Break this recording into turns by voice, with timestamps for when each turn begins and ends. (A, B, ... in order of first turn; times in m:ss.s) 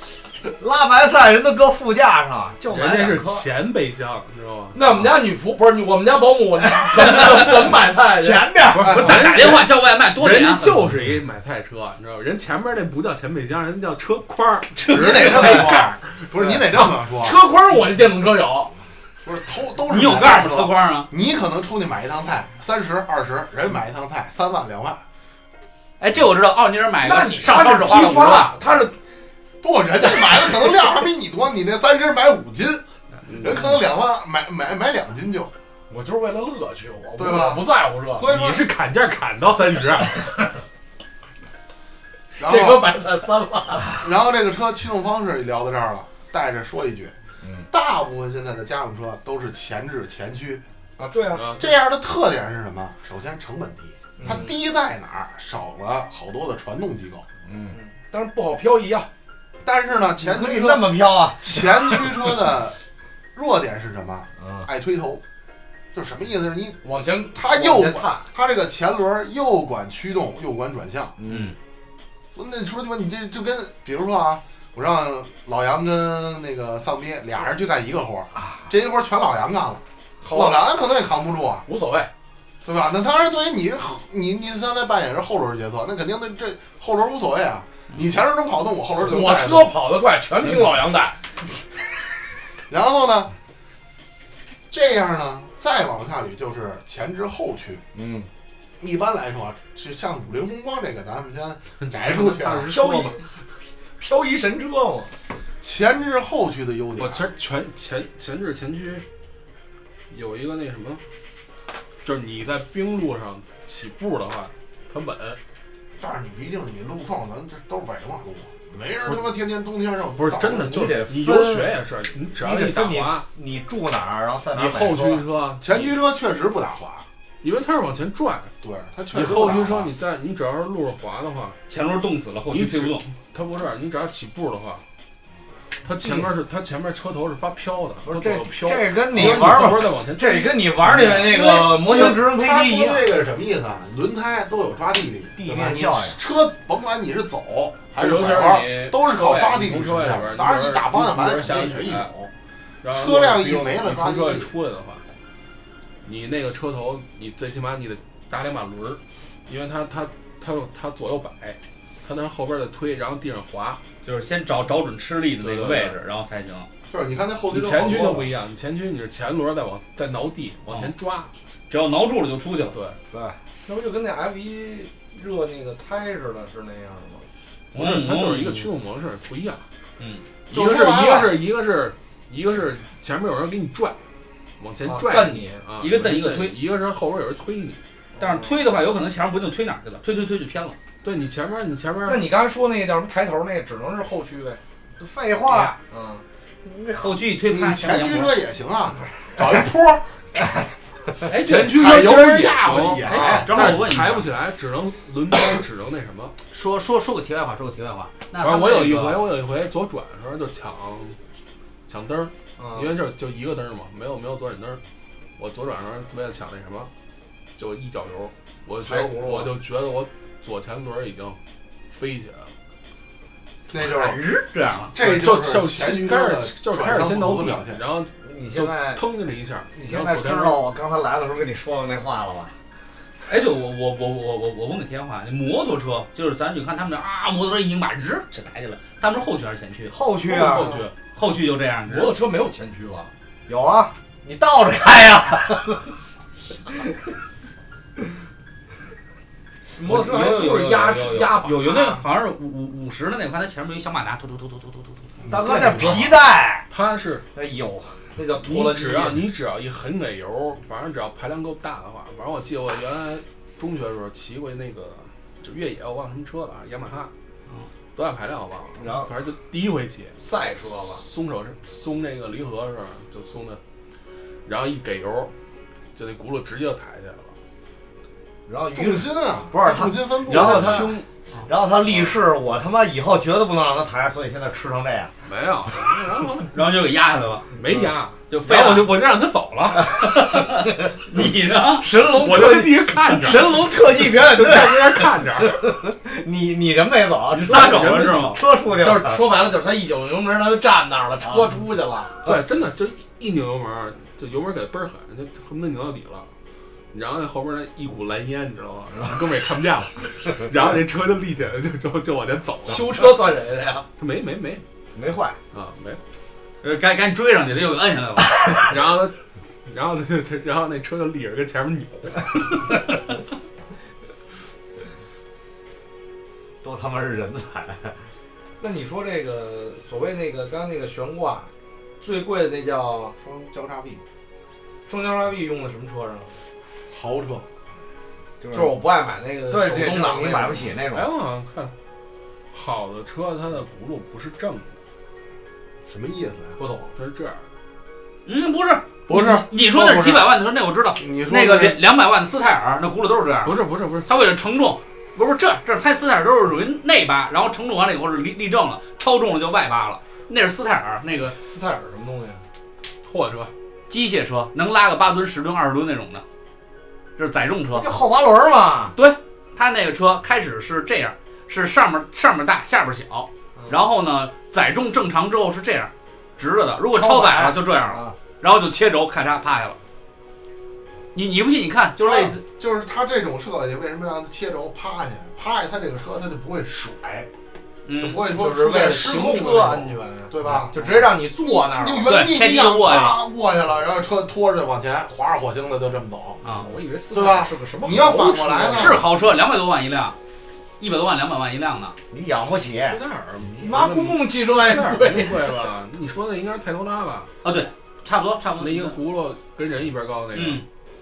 0:00.6-0:03.4 A
0:02.7-0:04.8 B
0:04.7-0:08.5 C
0:06.8-0:07.1 A
0:08.2-0:09.1 A
0:08.7-0:16.9 B
0:09.0-0:10.8 D
0:14.8-0:15.7 D
0:14.9-0:17.4 E
0:16.4-0:18.7 C
0:19.2-0:25.0 E
0:19.9-0:21.1 D
0:26.0-0:28.5 D
0:27.0-0:29.0 C
0:29.6-0:32.8 E
0:30.1-0:30.8 C
0:33.4-0:35.5 E
0:35.9-0:38.2 C
0:37.2-0:38.7 E
0:38.2-0:40.5 B
0:42.4-0:42.9 E
0:42.4-0:44.0 C
0:44.0-0:47.2 E
0:47.4-0:47.7 A
0:47.7-0:50.6 E
0:51.0-0:51.5 C
0:51.3-0:51.7 B
0:51.6-0:57.3 E
0:54.2-0:54.5 C
0:57.4-0:57.8 A
0:57.7-0:59.1 C
0:59.6-1:02.8 E
1:00.2-1:02.3 A
1:03.3-1:05.2 E
1:04.4-1:04.7 A
1:05.9-1:06.8 E
1:06.8-1:08.3 C
1:07.4-1:11.2 E
1:11.2-1:11.5 A
1:11.3-1:11.6 D
1:12.4-1:21.6 E
1:18.4-1:18.6 A
1:20.2-1:20.6 C
1:21.7-1:22.1 C
1:22.6-1:29.7 E
1:29.0-1:31.2 C
1:32.7-1:33.3 E
1:34.7-1:37.8 E
1:37.9-1:38.3 A
1:38.8-1:42.7 E
1:41.8-1:43.2 B
1:42.7-1:43.2 C
1:44.0-1:45.1 C
1:45.6-1:47.3 E
1:47.0-1:49.0 B
1:50.1-1:51.0 B
1:52.0-1:55.4 B
1:56.0-2:00.8 E
2:00.2-2:03.2 B
2:00.7-2:01.8 A
2:02.4-2:05.2 A
2:04.5-2:06.0 B
2:05.6-2:07.1 E
2:07.4-2:08.5 B
2:08.6-2:09.9 E
2:09.1-2:11.6 B
2:11.7-2:13.1 D
2:12.5-2:14.8 B
2:15.8-2:21.3 B
2:16.0-2:16.3 A
2:18.0-2:23.1 A
2:21.0-2:32.3 E
2:25.4-2:26.2 A
2:27.9-2:32.1 B
2:32.8-2:35.0 B
2:32.9-2:34.5 E
2:36.0-2:43.8 B
2:44.0-2:46.7 D
2:45.4-2:46.0 B
2:46.9-2:48.3 E
2:47.5-2:51.3 B
2:51.7-2:52.8 D
2:52.7-2:53.0 B
2:53.1-2:53.4 A
2:53.6-2:57.3 C
2:57.7-2:58.7 D
2:57.7-2:59.6 B
3:00.0-3:00.2 D
3:00.5-3:04.0 B
3:00.5-3:01.5 E
3:04.6-3:07.8 B
3:04.8-3:05.6 C
3:05.8-3:06.6 D
3:08.2-3:08.7 C
3:08.2-3:10.8 D
3:11.0-3:12.3 B
3:12.1-3:14.6 C
3:15.0-3:15.8 A
3:15.9-3:16.2 C
3:16.6-3:17.1 A
3:17.0-3:18.3 D
3:17.5-3:20.0 E
3:21.3-3:22.0 D
3:21.4-3:26.3 B
3:21.7-3:23.8 E
3:23.0-3:24.3 D
3:23.1-3:23.4 C
3:26.5-3:29.2 D
3:28.4-3:31.2 B
3:31.9-3:34.8 B
3:32.6-3:32.9 C
3:35.4-3:36.9 B
3:37.6-3:41.4 B
3:38.8-3:39.5 C
3:41.9-3:42.5 B
3:43.7-3:44.2 E
3:43.8-3:44.9 D
3:45.0-3:47.8 E
3:45.0-3:50.6 B
3:48.2-3:49.0 A
3:49.7-3:52.5 A
3:53.3-3:59.9 D
3:59.9-4:00.8 A
4:00.3-4:01.0 B
4:00.6-4:00.8 C
4:01.1-4:02.1 D
4:01.9-4:03.1 C
4:03.5-4:05.8 A
4:09.8-4:12.0 C
4:09.9-4:15.1 D
4:15.2-4:16.0 E
4:15.3-4:16.7 A
4:16.7-4:17.2 B
4:17.4-4:18.0 A
4:18.2-4:19.2 C
4:18.4-4:27.1 B
4:27.9-4:30.2 B
4:28.8-4:29.1 A
4:30.2-4:31.0 C
4:30.7-4:33.6 B
4:34.4-4:35.3 B
4:35.9-4:37.3 B
4:38.5-4:41.0 A
4:38.8-4:41.0 E
4:40.3-4:41.1 B
4:41.5-4:45.1 A
4:41.9-4:42.2 B
4:45.2-4:46.5 B
4:46.5-4:47.5 D
4:47.6-4:50.4 B
4:48.3-4:48.9 D
4:49.9-4:51.9 D
4:51.8-4:59.2 A
4:52.0-4:55.6 B
4:57.3-4:58.4 D
4:57.5-4:58.4 B
4:58.8-5:02.1 C
5:02.2-5:06.3 B
5:06.9-5:13.2 B
5:12.7-5:13.9 C
5:14.0-5:14.6 B
5:15.0-5:15.4 A
5:15.5-5:16.0 B
5:16.6-5:18.6 D
5:18.6-5:22.8 B
5:26.6-5:28.0 A
5:28.6-5:33.2 C
5:33.2-5:34.0 E
5:34.9-5:36.4 C
5:36.9-5:37.4 E
5:38.4-5:38.8 A
5:38.5-5:40.7 C
5:39.5-5:41.1 A
5:40.9-5:41.7 B
5:42.5-5:44.7 B
5:45.9-5:46.6 E
5:46.6-5:46.9 C
5:47.0-5:47.4 B
5:48.3-5:53.6 D
5:49.1-5:50.3 E
5:51.0-5:51.8 E
5:53.4-5:54.1 B
5:54.1-6:01.4 D
6:01.4-6:02.4 C
6:03.0-6:03.5 B
6:03.9-6:06.2 D
6:07.2-6:07.9 D
6:07.7-6:09.0 A
6:09.0-6:19.8 D
6:16.9-6:18.2 A
6:21.1-6:22.4 D
6:22.0-6:27.3 E
6:27.9-6:28.2 D
6:28.0-6:36.4 E
6:28.2-6:32.1 C
6:32.0-6:33.2 D
6:36.4-6:36.7 D
6:36.4-6:39.0 C
6:37.1-6:39.1 E
6:38.7-6:40.2 D
6:40.8-6:42.0 D
6:42.1-6:43.0 A
6:42.8-6:47.3 B
6:43.6-6:45.7 C
6:47.4-6:49.0 D
6:48.6-6:50.6 B
6:50.3-6:50.6 D